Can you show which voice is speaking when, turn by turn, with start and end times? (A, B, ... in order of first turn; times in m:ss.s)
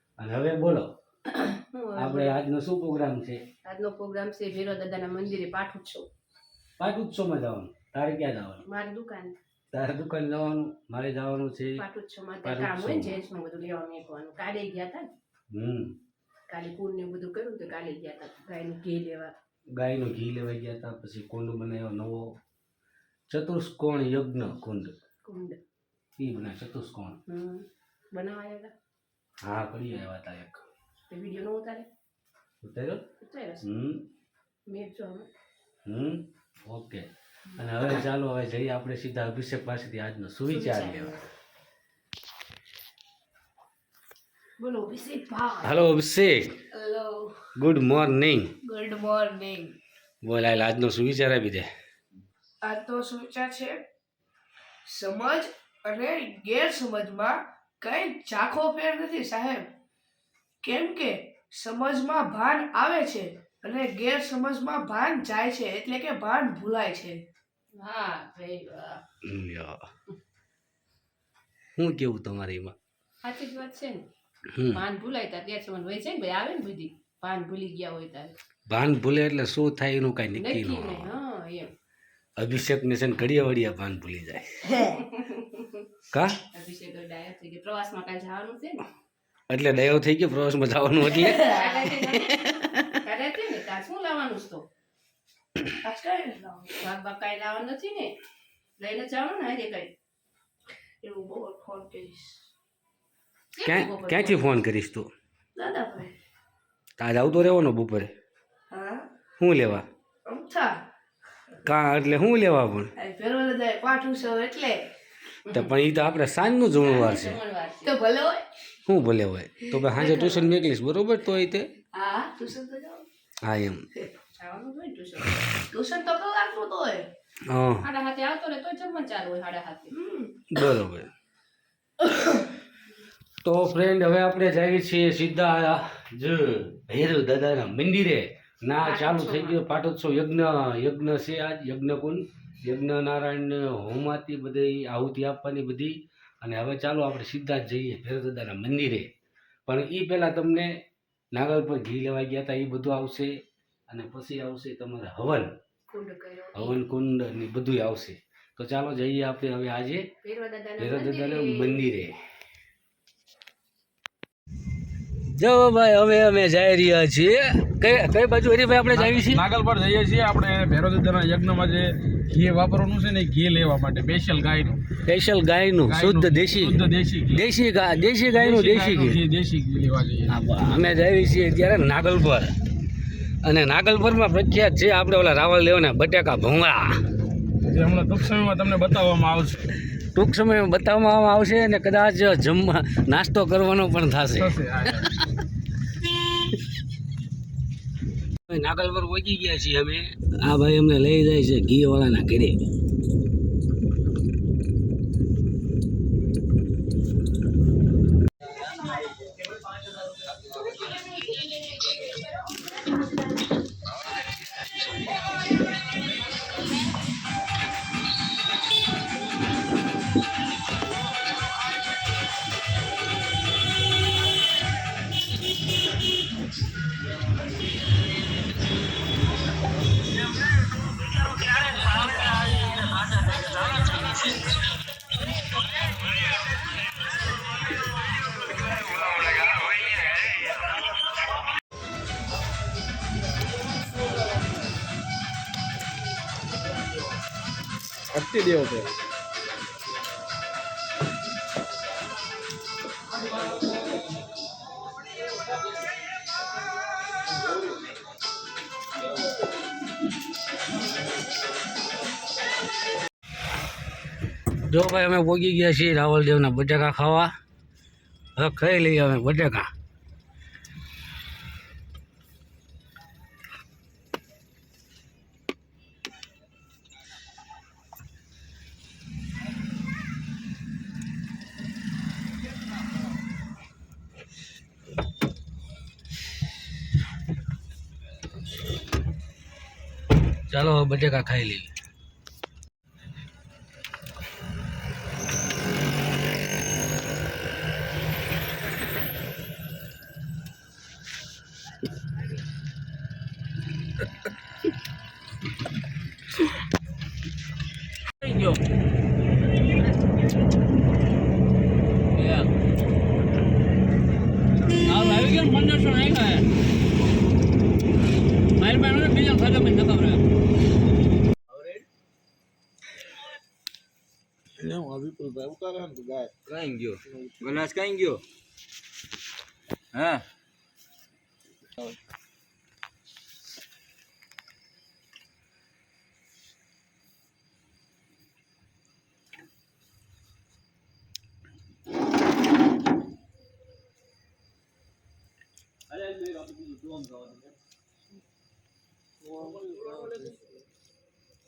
0:00.2-0:00.9 A
0:01.4-0:02.4 B
0:02.0-0:03.4 A
0:03.6-0:06.1 B
0:06.8-0:08.6 A
0:08.7-0:09.4 B
0:09.7-0:11.8 A
0:11.8-0:15.1 B
0:12.4-0:13.2 A
0:15.5-0:16.0 A
0:16.5-0:19.3 B
0:19.8-0:22.4 A
0:23.3-0:25.0 A
0:25.2-0:25.6 B
0:26.2-0:27.2 A
0:27.3-0:28.7 B
0:29.4-0:30.6 A
0:31.1-0:31.9 B
0:32.6-0:33.0 A
0:33.2-0:33.6 B
0:33.6-0:34.0 A
0:34.7-0:35.3 B
0:35.9-0:37.1 A
0:37.6-0:41.2 A
0:40.5-0:41.2 B
0:44.6-0:45.7 C
0:45.6-0:46.6 A
0:46.7-0:47.4 C
0:47.6-0:48.5 A
0:48.6-0:49.8 C
0:50.2-0:51.7 A
0:52.6-0:53.8 C
0:54.9-0:59.7 C
1:00.6-1:07.2 C
1:07.8-1:09.0 B
1:09.2-1:09.8 A
1:11.8-1:12.8 A
1:13.2-1:14.0 B
1:14.5-1:14.8 A
1:14.7-1:18.4 B
1:18.7-1:21.2 A
1:20.4-1:21.7 B
1:22.4-1:24.8 A
1:24.8-1:25.8 B
1:26.1-1:26.4 A
1:26.5-1:28.9 B
1:29.5-1:31.5 A
1:31.2-1:31.7 C
1:31.2-1:34.7 B
1:35.8-1:36.8 C
1:36.8-1:38.2 B
1:38.8-1:39.9 B
1:41.0-1:42.4 C
1:43.5-1:44.5 B
1:43.6-1:45.1 A
1:45.6-1:46.2 C
1:47.0-1:48.1 A
1:48.7-1:49.1 C
1:49.4-1:49.9 A
1:50.2-1:50.8 C
1:51.6-1:52.9 A
1:53.0-1:54.9 C
1:55.5-1:55.7 B
1:55.5-1:57.4 A
1:56.9-1:58.0 B
1:57.8-1:58.5 C
1:58.9-2:01.7 A
1:59.7-2:00.5 C
2:01.9-2:03.1 C
2:03.4-2:03.9 A
2:04.4-2:05.4 B
2:05.7-2:07.1 C
2:07.5-2:07.9 A
2:07.8-2:09.9 B
2:09.9-2:10.3 C
2:10.5-2:11.1 A
2:13.4-2:29.1 A
2:18.8-2:19.6 B
2:29.7-2:30.8 A
2:31.3-2:33.4 A
2:33.9-2:35.5 A
2:35.9-2:36.8 B
2:36.6-2:40.1 A
2:40.2-2:41.8 B
2:40.8-2:42.2 A
2:45.4-2:49.4 A
2:48.9-2:54.8 D
2:55.0-2:56.8 A
2:55.9-2:57.5 D
2:57.3-2:59.2 A
2:58.3-3:00.4 D
3:00.3-3:02.5 A
3:03.4-3:06.9 A
3:07.7-3:09.6 D
3:10.1-3:15.0 A
3:14.4-3:15.1 D
3:18.5-3:22.6 A
4:08.1-4:08.9 D
4:24.6-4:27.3 A
4:28.4-4:29.7 A
4:50.5-4:51.7 A
5:08.2-5:08.6 E
5:12.2-5:12.5 E
5:14.8-5:16.4 E
5:18.6-5:20.2 E
5:24.6-5:26.3 F
5:26.5-5:28.2 E
5:29.9-5:30.2 E
5:46.0-5:47.4 E
5:49.5-5:49.9 F
5:49.8-5:50.2 E